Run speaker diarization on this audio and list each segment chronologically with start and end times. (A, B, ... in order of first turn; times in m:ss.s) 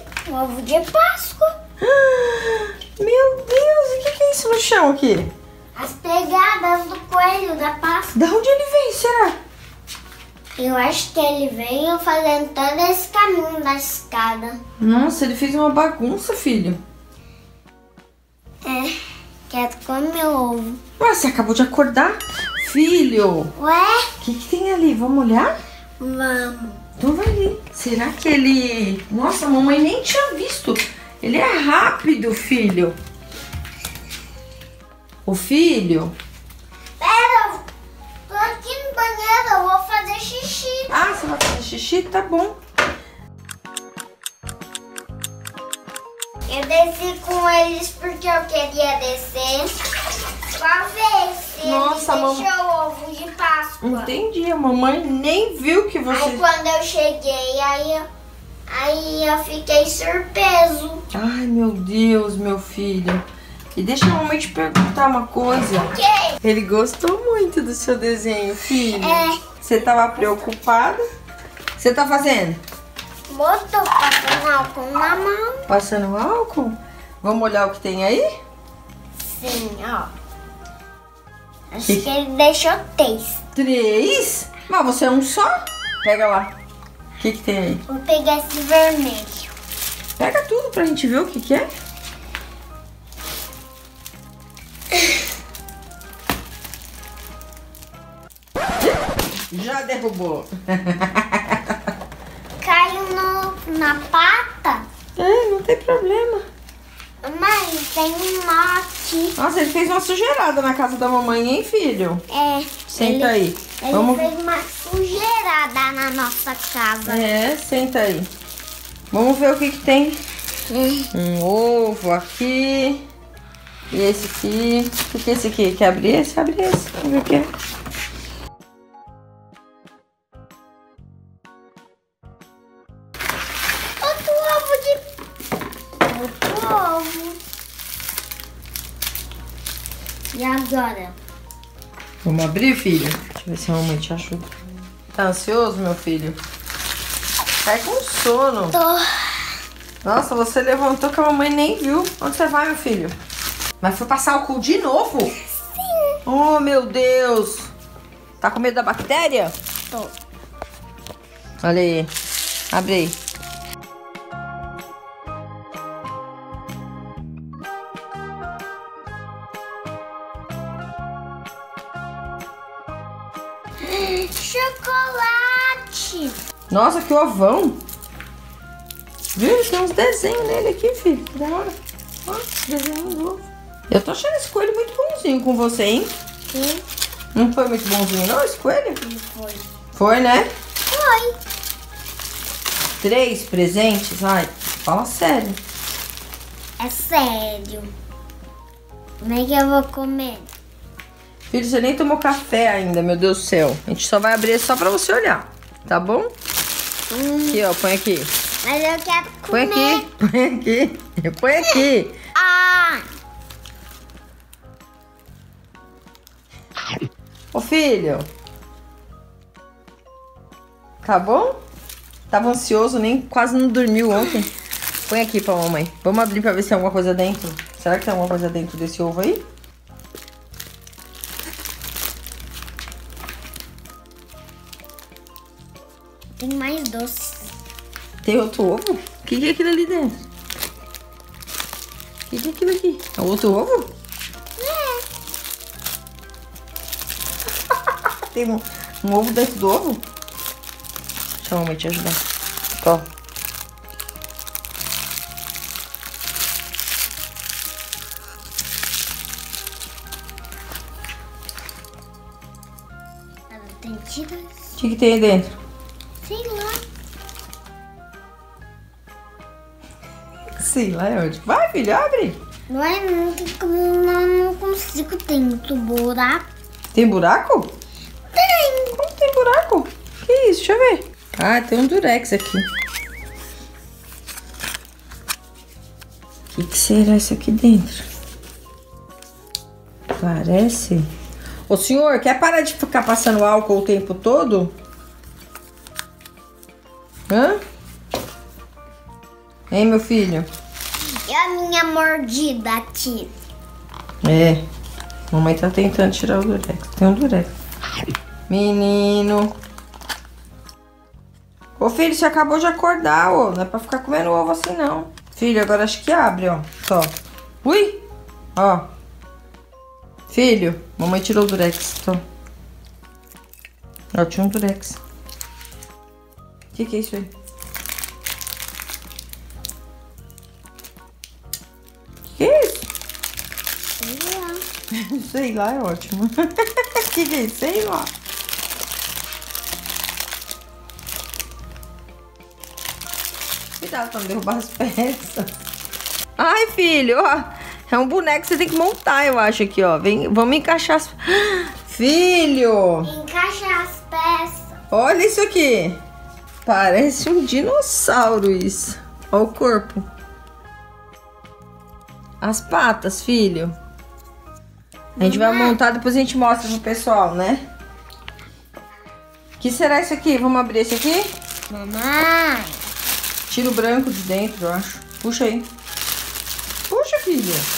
0:00.3-0:01.6 A
0:01.8-0:05.3 B
0:05.8-0:08.2 A
0:08.1-0:09.4 B
0:10.6-0:14.6 A
0:14.8-0:16.8 B
0:18.6-0:20.8 A
0:21.0-0:23.5 B
0:23.6-0:24.1 A
0:24.2-0:25.5 B
0:26.0-0:26.8 A
0:27.0-0:33.0 B
0:35.3-0:36.2 B
0:37.0-0:37.7 A
0:38.3-0:41.0 A
0:40.9-0:42.6 B
0:46.5-0:49.8 A
0:50.5-0:54.1 A
0:51.6-0:52.5 B
0:53.8-0:56.4 B
0:56.1-0:58.1 A
0:58.7-1:01.0 A
1:01.1-1:11.0 B
1:05.9-1:06.4 A
1:08.8-1:09.4 A
1:11.8-1:12.6 B
1:13.3-1:15.7 A
1:15.7-1:18.3 B
1:19.2-1:20.1 A
1:21.7-1:23.4 A
1:23.6-1:26.5 B
1:27.2-1:27.8 B
1:27.9-1:29.5 A
1:30.2-1:31.7 B
1:39.5-1:41.8 B
1:42.6-1:44.9 A
1:45.2-1:46.4 B
1:47.2-1:49.3 A
1:49.4-1:52.2 B
1:52.3-1:57.4 A
1:52.9-1:54.3 B
1:57.1-1:58.3 B
1:59.1-2:00.2 B
2:00.7-2:01.1 A
2:01.1-2:03.0 B
2:03.9-2:07.5 B
2:14.0-2:15.0 A
2:16.0-2:17.4 A
2:20.3-2:21.2 A
2:22.2-2:24.5 B
2:25.1-2:26.4 B
2:27.6-2:28.8 B
2:28.7-2:29.5 A
2:30.0-2:33.1 B
2:33.8-2:35.3 B
2:35.6-2:36.2 A
2:36.2-2:37.7 B
2:38.4-2:39.5 B
2:41.6-2:42.1 B
2:42.7-2:43.2 B
2:53.8-2:56.4 A
2:56.7-2:57.8 B
2:59.3-3:06.1 B
3:06.5-3:06.8 A
3:07.3-3:09.0 B
3:09.0-3:09.7 A
3:09.9-3:10.5 B
3:10.9-3:11.4 A
3:13.0-3:15.6 B
3:16.8-3:17.9 A
3:19.2-3:20.5 A
3:21.5-3:26.3 B
3:27.1-3:27.7 A
3:27.5-3:28.3 B
3:28.6-3:30.1 A
3:29.5-3:32.2 B
3:31.6-3:33.1 A
3:37.5-3:38.3 B
3:41.0-3:41.6 B
3:42.3-3:44.5 B
3:45.1-3:49.4 B
3:56.4-3:57.5 A
3:58.2-4:00.2 B
4:02.3-4:03.9 B
4:04.6-4:05.0 A
4:07.7-4:10.0 B
4:11.4-4:12.2 B
4:12.8-4:13.0 B
4:23.5-4:24.6 A
4:24.8-4:25.5 B
4:26.2-4:26.8 A
4:30.6-4:32.4 B
4:32.7-4:36.4 A
4:36.9-4:37.7 B
4:38.3-4:39.0 A
4:39.0-4:42.7 B
4:46.5-4:48.1 B
4:50.1-4:51.1 B
4:51.7-4:54.7 B
4:57.3-4:57.6 B
4:59.7-5:00.5 B
5:01.2-5:03.3 A
5:04.2-5:04.6 B
5:05.3-5:07.5 B
5:08.5-5:09.5 B
5:11.8-5:18.0 B
5:18.6-5:18.9 B
5:20.3-5:22.2 B
5:24.1-5:25.0 B
5:26.7-5:27.3 B
5:32.3-5:32.9 B
5:34.0-5:34.6 A
5:34.9-5:38.1 B
5:43.8-5:45.4 B
5:46.4-5:53.1 B
5:53.0-5:54.8 A
5:54.9-5:56.0 B
5:56.6-6:00.0 B
6:02.4-6:03.8 B
6:05.2-6:05.8 A
6:05.2-6:07.7 B
6:09.6-6:11.3 B
6:11.7-6:12.8 A
6:13.5-6:15.7 B
6:16.9-6:17.7 B